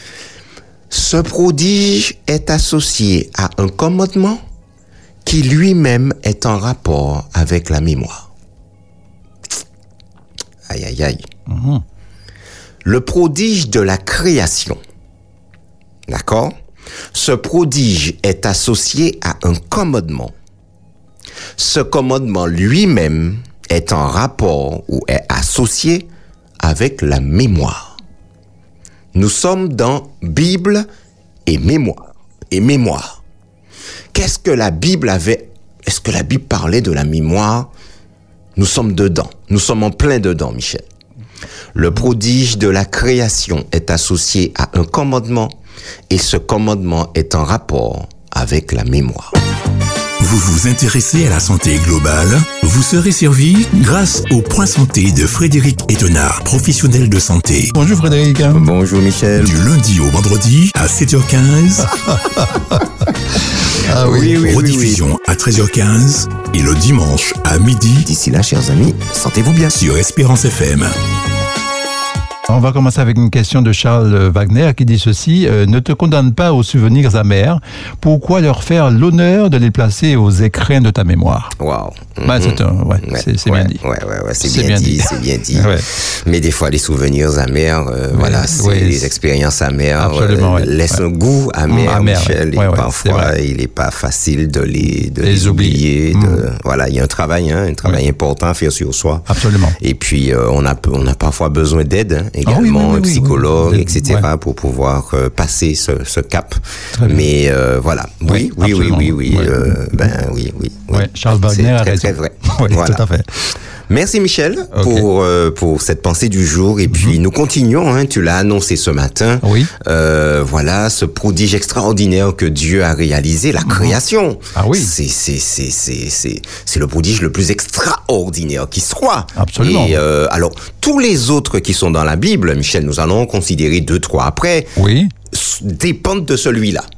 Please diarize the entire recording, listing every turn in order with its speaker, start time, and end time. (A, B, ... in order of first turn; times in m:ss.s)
0:00.9-0:04.4 A
0:05.2-0:08.3 A
0:10.7-0:11.2 A
0:11.5-0:11.8 B
0:12.8-0:14.8 A
0:16.1-0:16.5 A
0:17.1-0:20.3 A
0:21.6-0:26.0 A
0:26.6-0:27.9 A
0:29.1-0:30.8 A
0:31.4-0:33.2 A
0:34.1-0:37.7 A
0:38.6-0:40.8 A
0:41.7-0:45.6 A
0:46.1-0:49.3 A
0:50.2-0:57.7 C
0:57.7-0:58.7 B
0:58.5-0:59.6 A
0:59.4-1:02.2 C
1:03.8-1:04.6 B
1:03.9-1:05.0 A
1:04.0-1:08.1 C
1:08.0-1:09.8 A
1:09.7-1:11.0 C
1:12.5-1:21.5 B
1:21.6-1:39.3 A
1:22.2-1:23.8 B
1:24.4-1:25.8 B
1:28.1-1:29.1 B
1:30.0-1:31.0 B
1:31.7-1:33.3 B
1:35.2-1:36.4 B
1:39.3-1:39.8 B
1:39.8-1:53.1 A
1:42.4-1:44.2 B
1:46.9-1:47.3 B
1:48.3-1:49.7 B
1:50.9-1:53.2 B
1:53.9-2:14.7 A
1:54.7-1:55.0 B
1:56.9-1:57.2 B
1:59.4-1:59.7 B
2:03.6-2:04.0 B
2:04.5-2:04.9 B
2:09.4-2:10.0 B
2:14.8-2:15.1 B
2:15.3-2:16.8 A